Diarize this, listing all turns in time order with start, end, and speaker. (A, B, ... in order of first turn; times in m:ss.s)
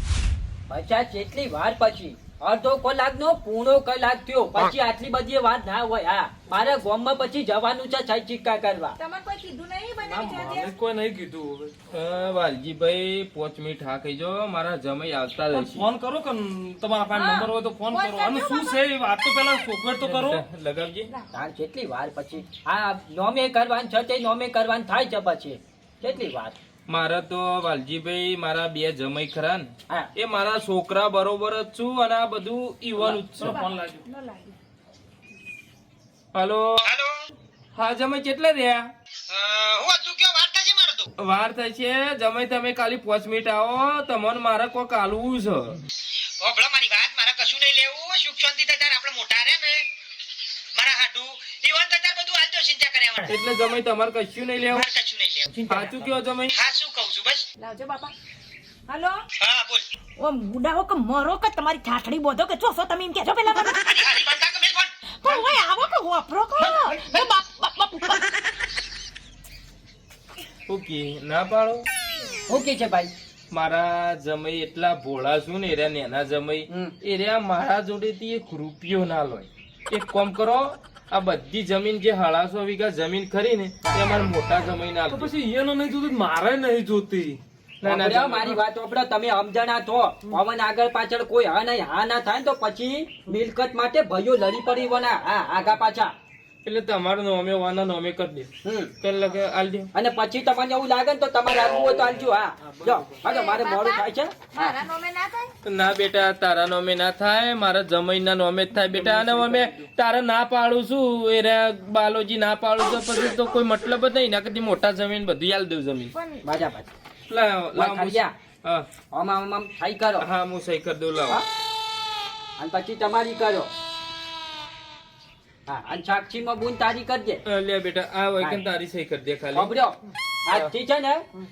0:00.7-0:08.9 A
0:09.0-0:10.7 B
0:10.0-0:11.7 C
0:11.9-0:15.9 D
0:15.5-0:20.4 C
0:17.1-0:18.8 B
0:20.0-0:21.1 D
0:21.3-0:26.6 A
0:26.9-0:33.6 D
0:33.0-0:33.2 A
0:33.1-0:34.0 C
0:33.4-0:34.6 B
0:36.3-0:36.9 D
0:36.8-0:37.2 E
0:37.7-0:38.9 D
0:39.3-0:41.1 E
0:41.2-0:45.8 D
0:46.2-0:49.9 E
0:50.7-0:53.4 E
0:53.2-0:54.8 D
0:54.7-0:57.4 E
0:55.7-0:56.5 D
0:57.6-0:58.1 B
0:58.9-0:59.2 B
0:59.4-0:59.8 E
1:00.2-1:03.8 B
1:03.6-1:05.5 E
1:05.2-1:08.2 B
1:06.6-1:07.3 E
1:10.7-1:11.8 D
1:12.5-1:13.1 A
1:13.5-1:25.3 D
1:23.8-1:24.1 A
1:25.1-1:27.4 C
1:27.8-1:28.6 D
1:27.8-1:36.1 A
1:36.6-1:38.5 D
1:38.6-1:38.9 A
1:39.0-1:39.9 D
1:39.9-1:44.8 A
1:42.6-1:43.1 D
1:43.2-1:45.5 B
1:45.6-1:56.1 D
1:48.9-1:49.8 C
1:56.1-1:56.4 B
1:56.4-1:56.9 A
1:57.3-1:58.9 D
1:57.7-1:58.3 A
1:59.1-2:00.3 A
2:00.2-2:01.4 D
2:02.6-2:03.7 A
2:05.7-2:07.4 A
2:07.4-2:09.7 D
2:09.5-2:11.2 A